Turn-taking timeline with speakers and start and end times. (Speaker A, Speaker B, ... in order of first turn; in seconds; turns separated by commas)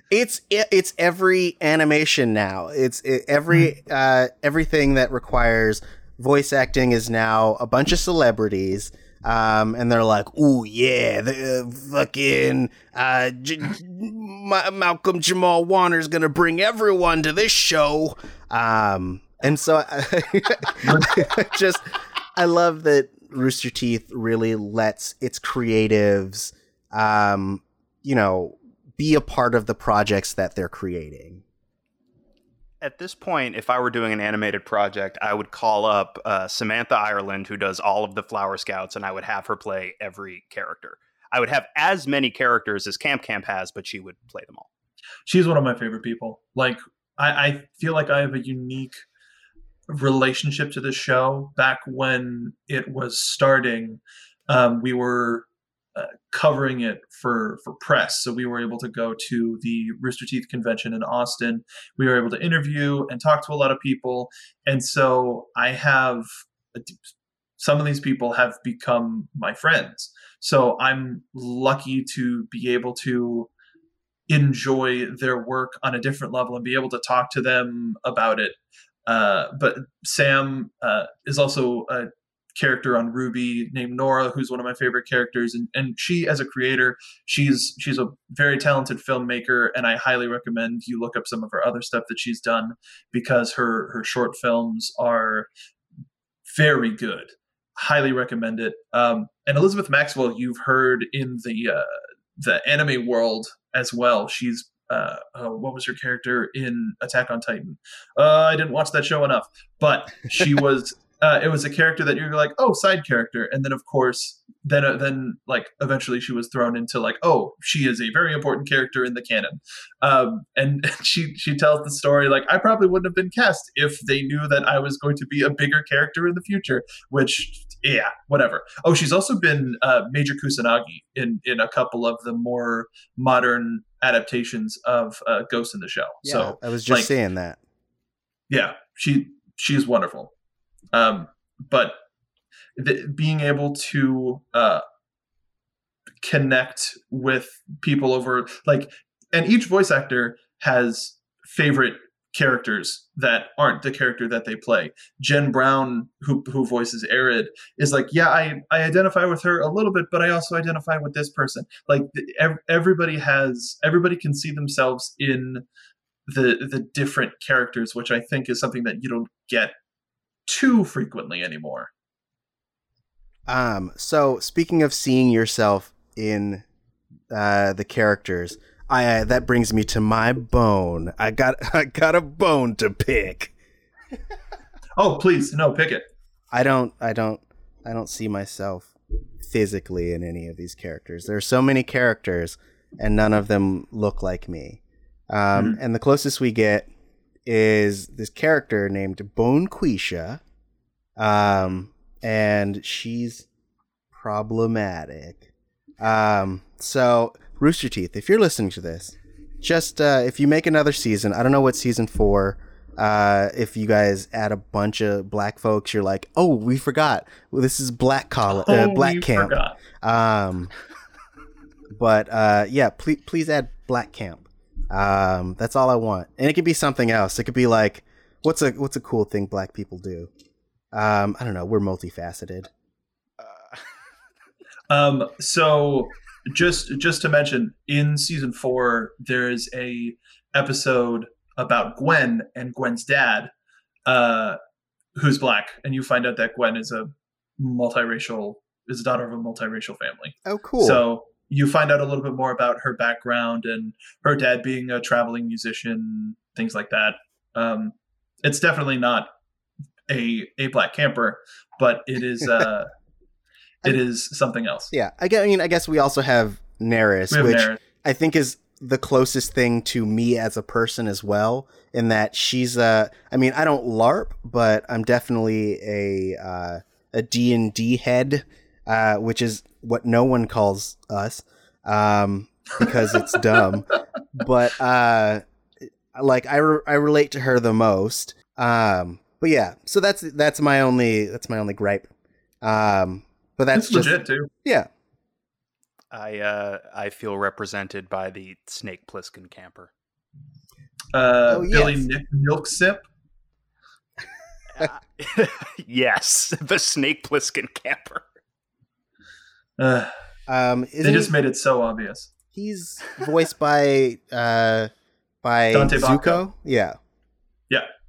Speaker A: 0.1-31.4, Speaker B: 20.8-21.3, Speaker C: 32.8-44.7, Speaker B: 45.3-49.0, Speaker B: 49.9-67.0, Speaker B: 67.6-73.5, Speaker B: 74.3-95.5, Speaker B: 96.5-137.1, Speaker A: 136.2-137.6, Speaker B: 138.5-140.3, Speaker B: 140.9-142.0, Speaker B: 142.8-144.8, Speaker B: 146.2-165.6, Speaker B: 166.3-169.7, Speaker B: 170.5-171.9, Speaker A: 173.5-176.7, Speaker A: 177.3-183.5, Speaker B: 185.0-186.0, Speaker A: 186.5-196.9, Speaker A: 197.4-200.4, Speaker A: 201.2-203.5, Speaker A: 204.1-205.5, Speaker A: 206.0-220.7, Speaker B: 218.5-219.8, Speaker A: 221.9-230.3, Speaker A: 230.9-232.7, Speaker C: 233.4-233.8, Speaker B: 234.9-243.5, Speaker B: 244.1-244.6, Speaker B: 245.2-259.3, Speaker A: 250.4-251.0, Speaker B: 260.1-262.9, Speaker B: 263.8-264.9, Speaker A: 264.9-285.4, Speaker B: 267.3-267.8, Speaker B: 282.8-283.6, Speaker A: 286.1-292.1, Speaker A: 292.6-294.9, Speaker B: 293.7-294.5, Speaker C: 296.1-299.9, Speaker B: 301.1-303.1, Speaker A: 301.5-302.0, Speaker C: 304.8-308.2, Speaker B: 309.8-310.1, Speaker A: 310.5-311.3, Speaker B: 311.0-312.3, Speaker A: 312.5-314.9, Speaker A: 315.4-316.9, Speaker B: 315.7-316.4